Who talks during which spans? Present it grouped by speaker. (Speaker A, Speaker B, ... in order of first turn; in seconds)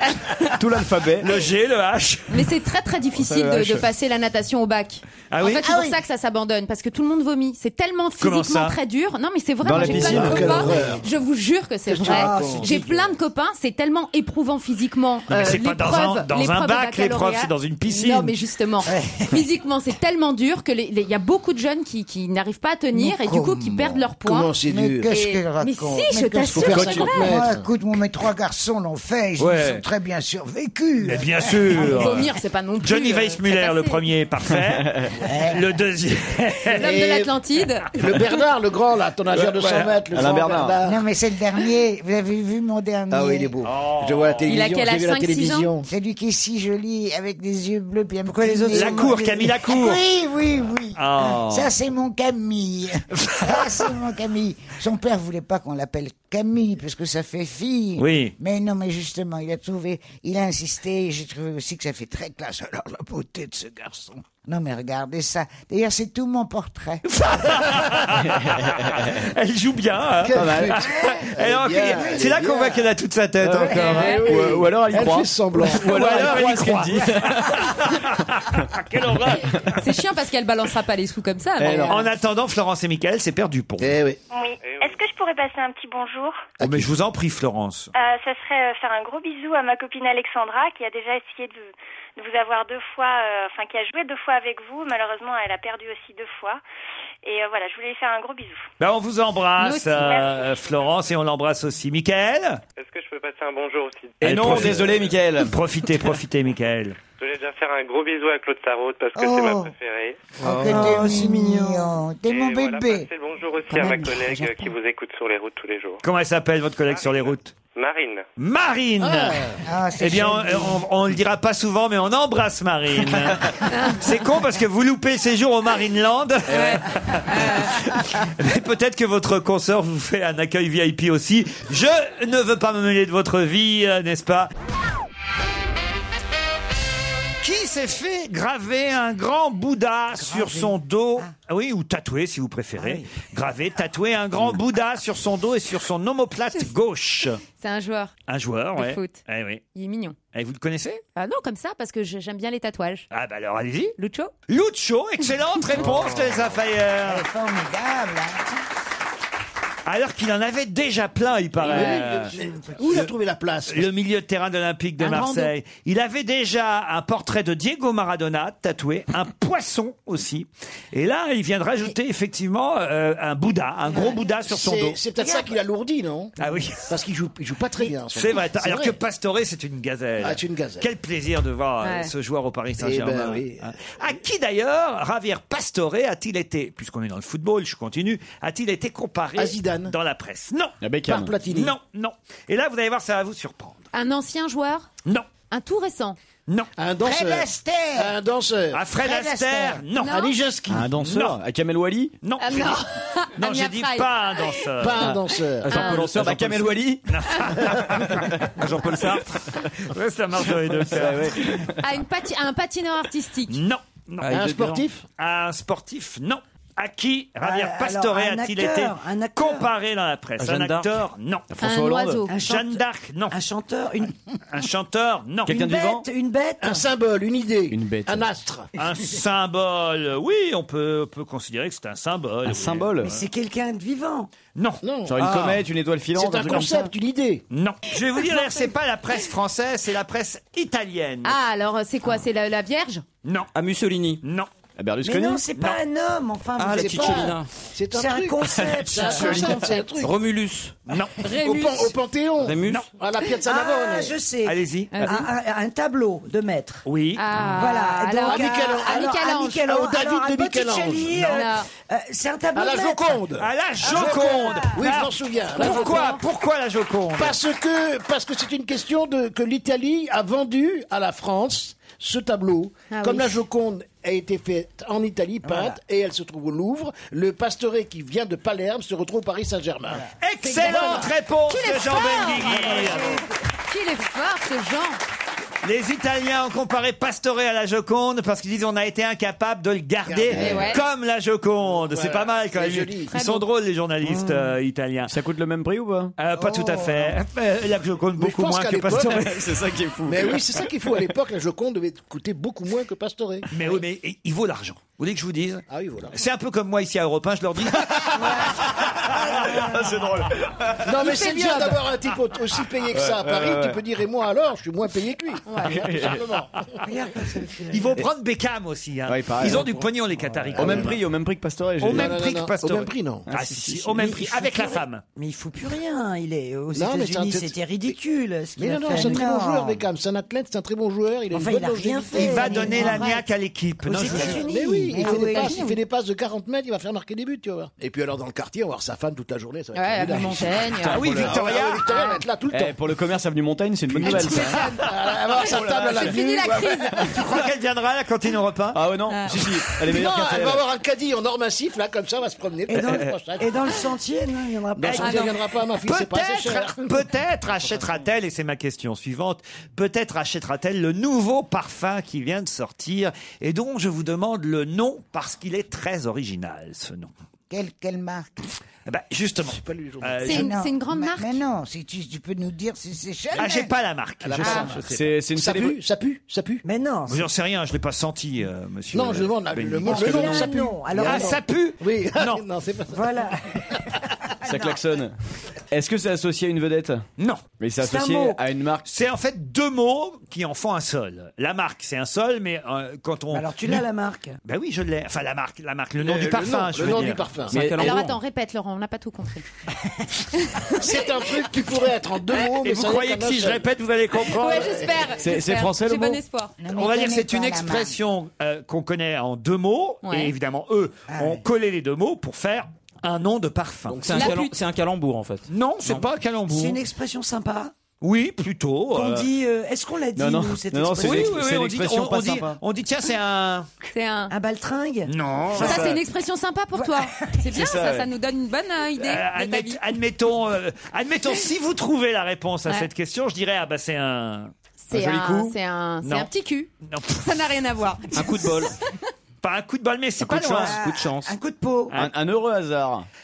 Speaker A: 0.1-0.6, 2.3-24.6, 25.1-27.4, 31.7-34.0, 36.7-38.0, 44.4-45.7, 73.7-74.3, 79.8-82.1, 99.6-100.2, 123.7-124.1, 126.5-127.8, 147.5-148.1, 148.8-150.2, 151.2-153.1, 154.0-154.3, 161.7-162.1, 165.0-165.5, 181.8-182.1, 193.9-194.9, 195.5-196.2, 199.9-200.3, 202.4-204.7, 205.7-206.1, 211.8-213.6, 221.6-222.3, 238.3-238.6, 241.2-243.0, 251.2-251.9, 254.9-255.3, 257.1-259.6, 261.2-261.7, 265.4-266.2, 272.9-273.4, 280.5-285.0, 290.4-290.8, 293.1-293.5, 311.0-311.8, 315.4-315.9, 335.0-335.8, 339.7-341.2, 341.8-342.2, 344.0-347.4, 349.1-349.8, 354.9-355.4, 370.2-371.4, 397.7-399.4, 400.3-401.4, 404.2-406.5, 410.0-410.3, 414.1-414.5, 423.9-424.3, 425.6-429.8, 434.8-438.8
Speaker B: 0.6-1.3, 3.1-3.9, 9.6-10.7, 40.1-40.8, 70.3-70.8, 73.4-77.7, 81.6-82.0, 104.2-105.5, 190.8-191.3, 200.7-202.2, 205.9-207.2, 207.9-208.7, 209.4-209.7, 210.7-211.8, 221.5-222.3, 225.4-226.0, 227.7-228.2, 232.4-233.2, 235.1-236.9, 244.8-245.5, 248.5-249.6, 294.0-294.5, 295.1-296.1, 299.0-300.7, 308.9-310.8, 312.9-313.8, 315.6-316.2, 319.1-319.8, 320.5-322.2, 323.3-324.0, 340.8-341.3, 342.5-344.6, 345.4-346.8, 348.7-350.6, 374.8-375.8, 379.9-380.5, 384.4-385.1, 385.7-387.0, 387.6-388.8, 397.5-398.0, 405.2-406.2, 419.0-419.2, 420.1-422.6, 425.6-426.0, 427.5-428.1, 434.9-435.6, 441.9-443.1
Speaker C: 1.2-2.5, 5.3-5.7, 8.2-8.8, 15.3-18.4, 29.4-29.8, 31.0-36.9, 39.4-40.0, 43.6-44.5, 48.7-50.0, 51.0-51.7, 53.2-53.6, 58.0-58.3, 67.0-74.2, 75.7-79.6, 81.9-84.0, 86.6-87.9, 98.8-102.6, 104.2-107.0, 116.0-117.5, 118.4-119.4, 120.0-134.5, 137.4-147.4, 148.3-149.6, 150.3-151.0, 153.1-153.9, 154.5-157.2, 159.8-162.3, 163.7-175.0, 176.4-176.9, 178.1-190.8, 191.5-193.8, 198.7-200.3, 201.0-201.4, 202.2-202.8, 203.4-205.1, 207.1-208.4, 209.8-211.6, 213.5-214.3, 215.2-221.5, 222.3-223.4, 224.5-225.8, 228.8-233.2, 234.5-234.8, 237.5-241.4, 243.2-243.5, 244.2-244.5, 250.9-251.2, 254.4-255.2, 256.8-257.4, 263.4-267.4, 280.2-283.2, 285.6-295.1, 296.2-299.4, 303.5-308.9, 317.7-321.0, 321.8-325.0, 332.1-334.4, 340.8-341.9, 347.1-348.8, 354.8-355.2, 355.8-367.1, 368.8-370.5, 373.3-375.0, 377.1-380.4, 380.9-382.4, 387.2-387.4, 388.9-393.9, 394.4-397.3, 402.6-405.0, 406.7-414.3, 415.5-416.8, 418.0-419.2, 421.0-423.7, 425.1-426.0, 429.0-434.5, 436.0-436.3, 436.9-437.6, 439.4-440.8
Speaker D: 5.6-6.0, 12.1-12.7, 18.9-19.2, 22.9-24.1, 24.6-32.1, 35.2-35.6, 40.8-43.5, 45.8-67.0, 70.9-71.2, 71.9-72.5, 109.2-109.7, 110.4-113.1, 119.6-120.8, 157.0-158.4, 197.0-198.1, 198.9-199.8, 296.4-297.1, 328.9-329.8, 332.4-333.1, 334.9-335.6, 367.5-368.4, 370.3-373.7, 406.6-407.9
Speaker E: 9.8-11.0, 11.8-12.9, 24.2-25.1, 26.5-27.6, 36.8-37.3, 38.0-41.0, 43.1-45.9, 70.2-72.8, 73.8-76.3, 83.8-84.2, 86.6-86.9, 119.0-119.6, 161.6-163.9, 174.4-176.3, 176.9-178.9, 180.2-180.9, 182.8-183.7, 189.3-189.9, 191.0-191.7, 196.8-198.8, 200.1-200.9, 204.8-205.9, 214.3-215.0, 226.6-228.7, 234.8-235.4, 236.1-237.4, 246.7-250.2, 251.4-254.2, 258.2-261.4, 262.5-266.1, 267.2-280.0, 280.6-281.1, 290.1-290.8, 291.7-293.1, 298.2-299.3, 300.0-303.8, 305.7-306.2, 310.8-316.6, 320.5-321.0, 321.8-323.3, 326.7-327.9, 328.6-333.0, 334.0-342.8, 344.0-346.7, 349.9-353.6, 354.7-357.0, 369.4-370.4, 374.2-376.6, 378.9-384.0, 396.0-397.6, 400.8-403.6, 404.5-405.1, 413.9-414.2
Speaker F: 12.1-12.9, 48.2-49.5, 110.4-112.0, 113.7-114.7, 140.2-140.7, 142.8-143.1, 217.4-219.7, 222.3-224.1, 225.5-226.8, 233.0-234.3, 245.0-247.2, 247.9-249.9, 253.2-256.8, 257.5-263.2, 263.9-264.8, 275.4-275.8, 316.8-318.0, 323.9-329.4, 331.3-333.2, 333.8-335.4, 352.7-355.2, 376.6-377.3, 379.9-381.4, 382.9-384.7, 387.8-388.4, 393.3-394.4, 411.1-411.4, 416.5-417.7, 418.9-421.4, 424.3-425.1, 440.6-441.9
Speaker G: 84.3-86.5, 87.9-96.6, 97.2-98.7, 100.0-100.5
Speaker H: 84.6-85.0, 102.8-104.7, 107.2-110.3, 112.3-116.0, 116.9-118.2
Speaker I: 205.6-206.8, 208.6-209.2, 214.2-214.8, 220.4-221.0, 235.2-235.6, 243.5-244.2, 246.6-247.5, 250.0-250.8, 252.4-252.8, 397.5-398.1, 414.0-416.0, 438.1-438.7, 440.2-441.3